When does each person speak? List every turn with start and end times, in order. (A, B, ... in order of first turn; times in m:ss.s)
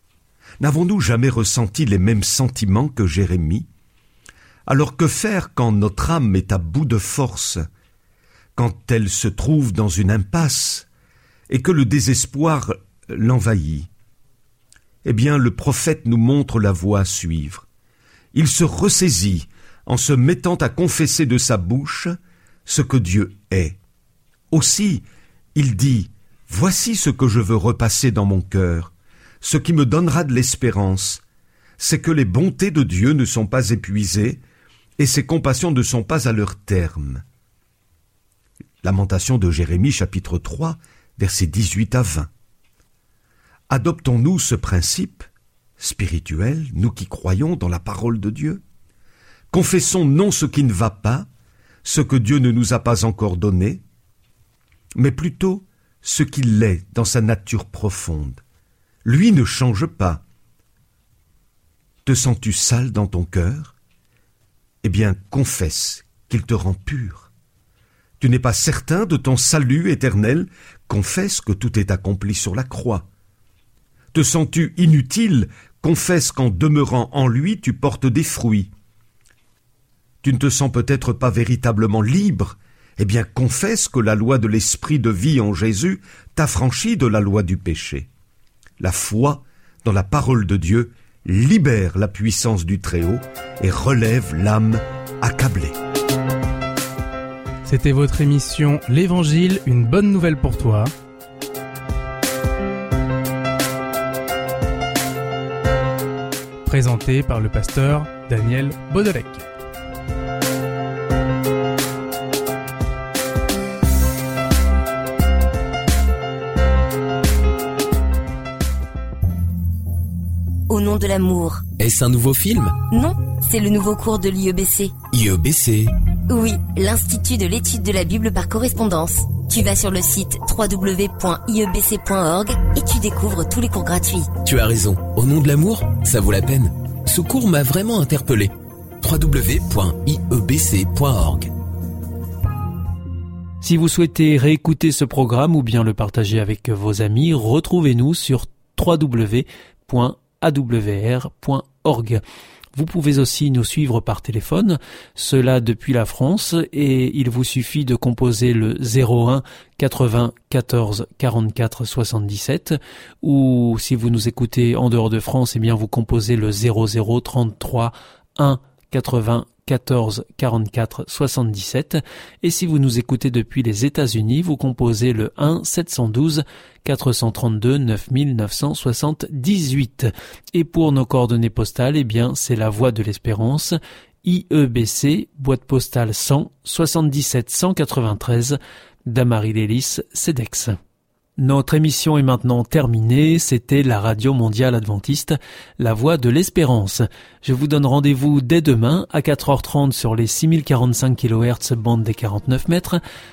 0:00.6-0:03.7 A
0:04.7-0:07.6 A
0:08.6-0:10.9 A
0:11.5-0:13.9 A
0:15.0-0:17.6 A
0:18.3-0:23.8 A
0:24.5-0:25.0 A
0:25.5-0:31.2 A
0:31.8-0:34.4 A
0:35.0-0:37.2 A
0:38.8-0:42.3 A
0:43.7-0:45.3 A
0:45.8-0:48.6 A
0:49.5-0:51.3 A
0:51.8-0:53.8 A
0:54.9-0:58.4 A
0:59.0-1:00.2 A
1:02.0-1:03.7 A
1:04.8-1:07.3 A
1:08.2-1:13.0 A
1:14.1-1:18.7 A
1:20.2-1:28.1 A
1:28.8-1:35.7 A
1:37.6-1:40.9 B
1:46.6-1:49.4 B
2:00.7-2:01.6 C
2:01.8-2:02.8 D
2:02.9-2:05.0 C
2:05.1-2:05.9 D
2:06.3-2:14.3 C
2:14.4-2:21.5 D
2:23.6-2:32.2 E
2:32.7-3:10.8 E
3:11.4-3:23.0 E